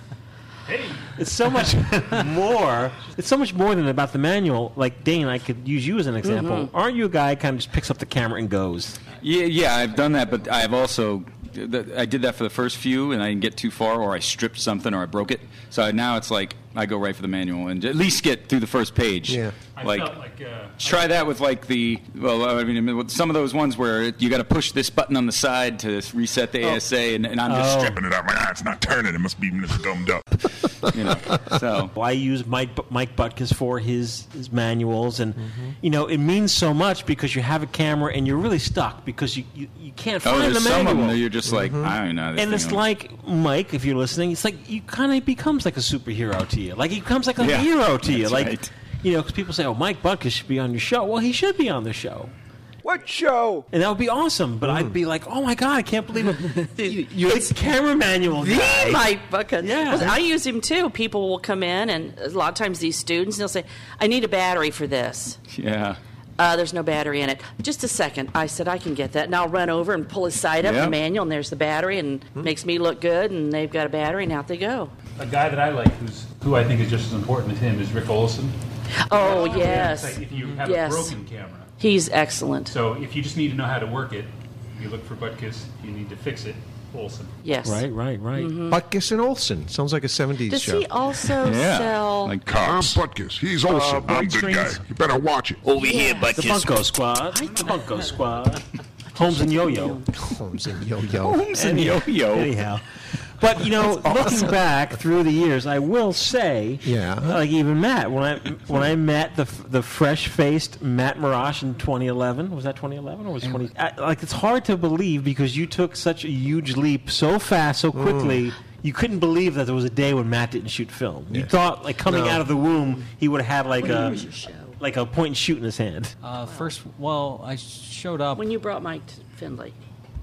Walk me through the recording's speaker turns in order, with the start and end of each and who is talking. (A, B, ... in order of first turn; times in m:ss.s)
0:00.7-0:01.2 A
0:01.2-0:09.0 B
0:06.2-0:06.7 C
0:09.2-0:20.1 D
0:19.3-0:19.5 E
0:19.8-0:21.3 A
0:20.8-0:28.0 D
0:27.5-0:28.0 B
0:27.9-0:30.4 F
0:30.9-0:31.9 D
0:31.9-0:41.2 B
0:40.2-0:42.8 D
0:41.5-0:41.9 E
0:42.3-0:52.3 B
0:47.4-0:48.7 D
0:53.7-0:59.1 B
0:54.6-0:55.0 E
0:56.8-0:57.5 C
0:58.4-1:05.4 C
0:59.6-1:00.2 B
1:05.5-1:06.0 D
1:06.4-1:14.9 C
1:10.6-1:11.0 D
1:15.2-1:18.6 A
1:19.0-1:21.2 C
1:19.1-1:21.7 A
1:21.8-1:22.7 C
1:22.7-1:27.4 A
1:27.4-1:28.8 C
1:27.6-1:28.6 B
1:28.7-1:30.9 E
1:30.5-1:32.4 C
1:31.4-1:33.0 D
1:32.4-1:35.6 F
1:33.7-1:34.8 B
1:35.6-1:36.8 D
1:35.7-1:36.4 C
1:36.3-1:40.0 B
1:37.5-1:38.0 C
1:39.3-1:40.0 C
1:40.2-1:41.5 E
1:41.2-1:42.6 D
1:41.5-2:06.1 B
1:46.8-1:47.4 E
1:53.4-1:53.7 G
1:57.9-1:58.4 E
2:01.3-2:02.5 E
2:03.8-2:04.8 C
2:06.2-2:08.5 G
2:08.4-2:09.8 C